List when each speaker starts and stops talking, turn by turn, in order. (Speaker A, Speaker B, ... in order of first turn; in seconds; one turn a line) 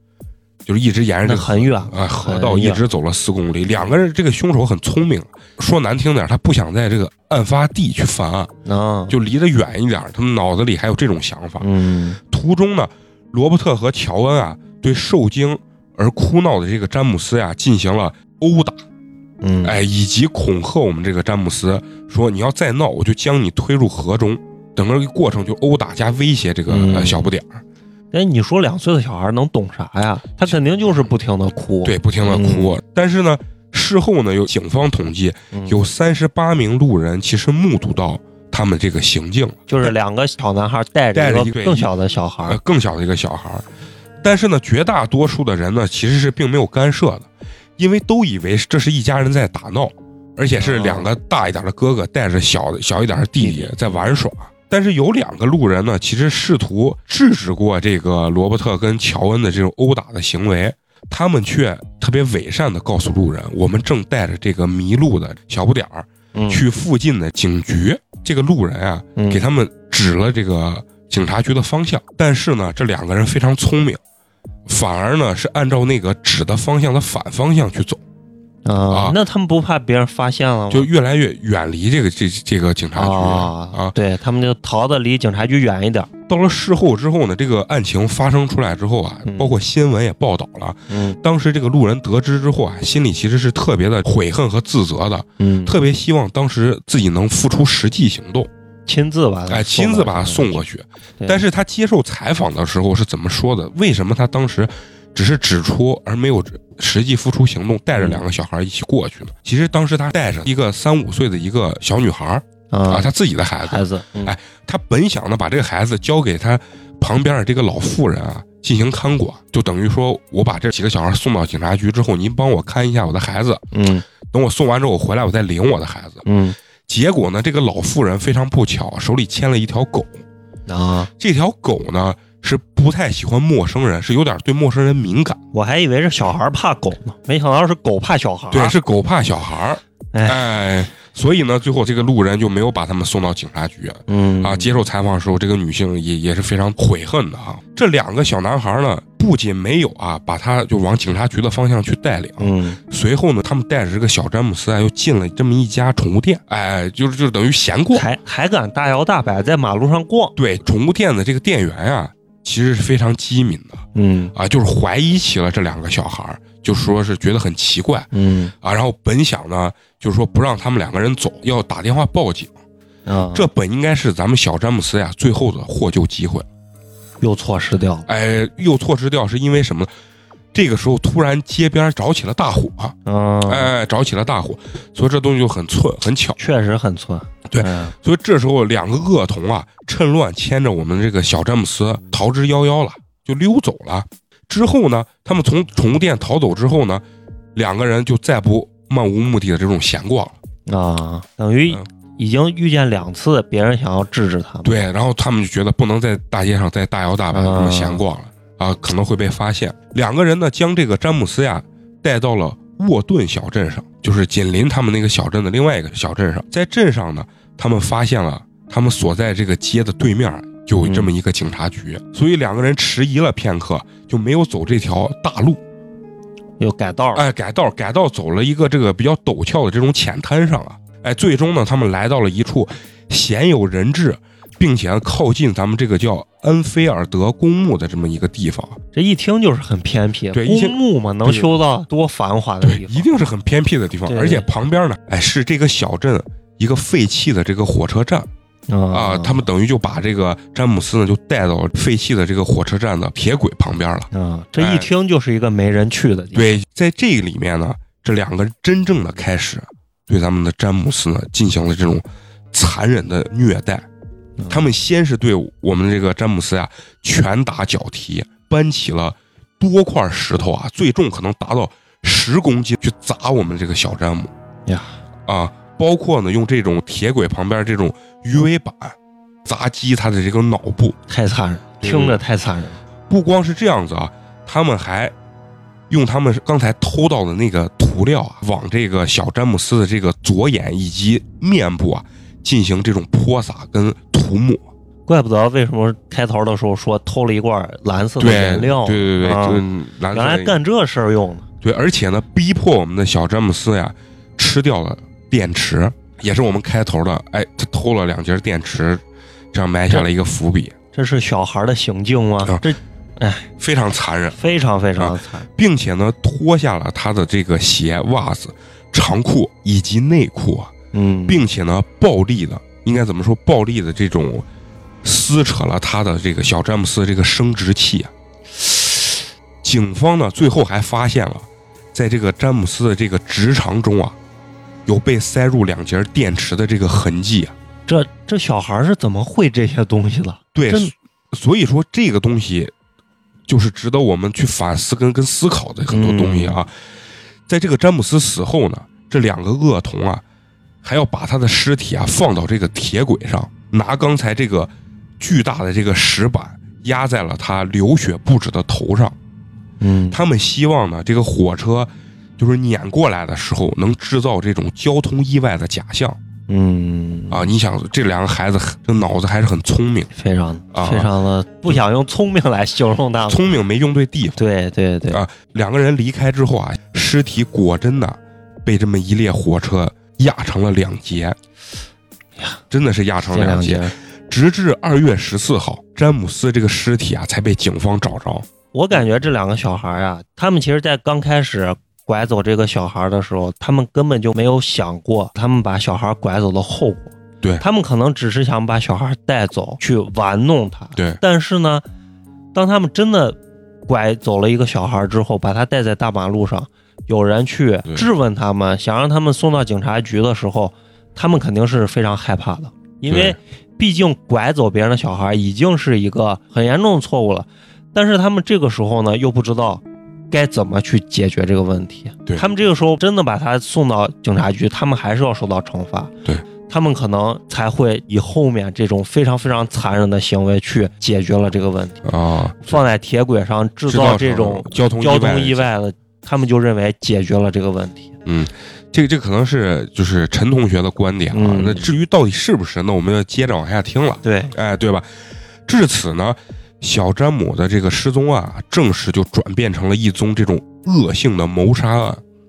Speaker A: 0.7-8.5
Speaker B: 1.2-2.8
Speaker B: 8.6-9.1
Speaker A: 9.1-11.7
Speaker B: 11.6-12.2
Speaker A: 12.2-18.8
Speaker B: 19.4-19.8
Speaker A: 19.6-27.6
Speaker B: 26.7-27.3
Speaker B: 28.1-32.7
Speaker A: 31.8-39.9
Speaker B: 35.5-35.8
Speaker B: 39.7-42.6
Speaker A: 41.1-41.9
Speaker A: 42.5-43.6
Speaker A: 44.2-47.3
Speaker A: 47.8-74.0
Speaker B: 50.6-51.1
Speaker B: 53.4-53.9
Speaker B: 66.3-66.6
Speaker B: 69.2-69.4
Speaker A: 74.7-78.0
Speaker B: 78.6-80.9
Speaker A: 78.9-79.2
Speaker A: 80.7-83.9
Speaker B: 83.0-86.1
Speaker A: 86.3-98.5
Speaker B: 89.2-89.5
Speaker B: 90.9-91.2
Speaker B: 95.4-95.8
Speaker B: 98.9-100.6
Speaker A: 99.5-123.6
Speaker B: 108.0-108.2
Speaker B: 112.7-113.1
Speaker B: 113.6-114.3
Speaker B: 123.7-124.0
Speaker A: 124.3-126.2
Speaker B: 126.2-126.5
Speaker A: 126.9-130.2
Speaker B: 130.7-131.1
Speaker A: 131.2-135.4
Speaker B: 135.5-138.8
Speaker A: 138.5-158.1
Speaker B: 140.1-140.4
Speaker B: 144.1-144.8
Speaker B: 152.4-152.8
Speaker B: 157.9-160.3
Speaker A: 160.3-163.8
Speaker B: 163.9-164.3
Speaker A: 164.3-168.1
Speaker B: 168.1-168.5
Speaker A: 168.6-172.5
Speaker B: 173.1-173.5
Speaker A: 173.3-176.5
Speaker B: 177.2-178.1
Speaker A: 178.1-179.9
Speaker A: 180.5-182.9
Speaker B: 183.0-183.7
Speaker A: 183.4-186.4
Speaker B: 186.4-187.9
Speaker A: 187.5-197.0
Speaker A: 197.5-200.4
Speaker B: 200.7-204.8
Speaker A: 204.6-225.6
Speaker B: 207.3-208.0
Speaker B: 220.8-221.1
Speaker B: 226.6-227.2
Speaker A: 227.1-238.8
Speaker B: 238.9-243.1
Speaker A: 240.3-241.5
Speaker A: 242.6-248.3
Speaker B: 244.1-244.5
Speaker B: 248.7-249.4
Speaker A: 248.9-254.9
Speaker B: 254.1-256.6
Speaker A: 256.3-263.9
Speaker B: 264.4-264.6
Speaker A: 264.5-274.3
Speaker B: 274.7-274.9
Speaker A: 275.3-281.0
Speaker B: 281.1-282.8
Speaker A: 281.8-282.2
Speaker A: 283.1-285.1
Speaker A: 285.9-294.6
Speaker B: 295.1-301.4
Speaker A: 298.2-300.6
Speaker A: 301.6-309.0
Speaker A: 309.5-310.7
Speaker B: 310.9-313.5
Speaker A: 313.6-314.4
Speaker B: 314.4-315.5
Speaker A: 315.0-320.7
Speaker B: 320.9-321.4
Speaker A: 321.3-324.4
Speaker A: 325.0-329.1
Speaker A: 329.6-334.2
Speaker A: 334.9-337.5
Speaker B: 337.9-340.9
Speaker A: 340.5-342.7
Speaker A: 343.5-346.7
Speaker B: 345.9-346.6
Speaker A: 347.5-350.2
Speaker A: 350.8-359.2
Speaker B: 359.8-360.2
Speaker A: 360.1-366.2
Speaker B: 366.5-367.5
Speaker A: 367.3-370.1
Speaker B: 370.1-373.5
Speaker A: 370.7-371.1
Speaker A: 373.3-374.4
Speaker B: 374.4-375.2
Speaker A: 375.1-381.4
Speaker A: 382.7-388.4
Speaker B: 383.3-383.9
Speaker B: 388.7-401.8
Speaker A: 400.9-401.2
Speaker B: 402.5-426.1
Speaker A: 413.1-413.4
Speaker B: 426.7-432.0
Speaker A: 432.0-432.8
Speaker B: 432.6-438.1
Speaker A: 433.9-435.7
Speaker A: 438.2-445.1
Speaker B: 441.3-441.9
Speaker B: 444.2-444.5
Speaker A: 445.7-452.2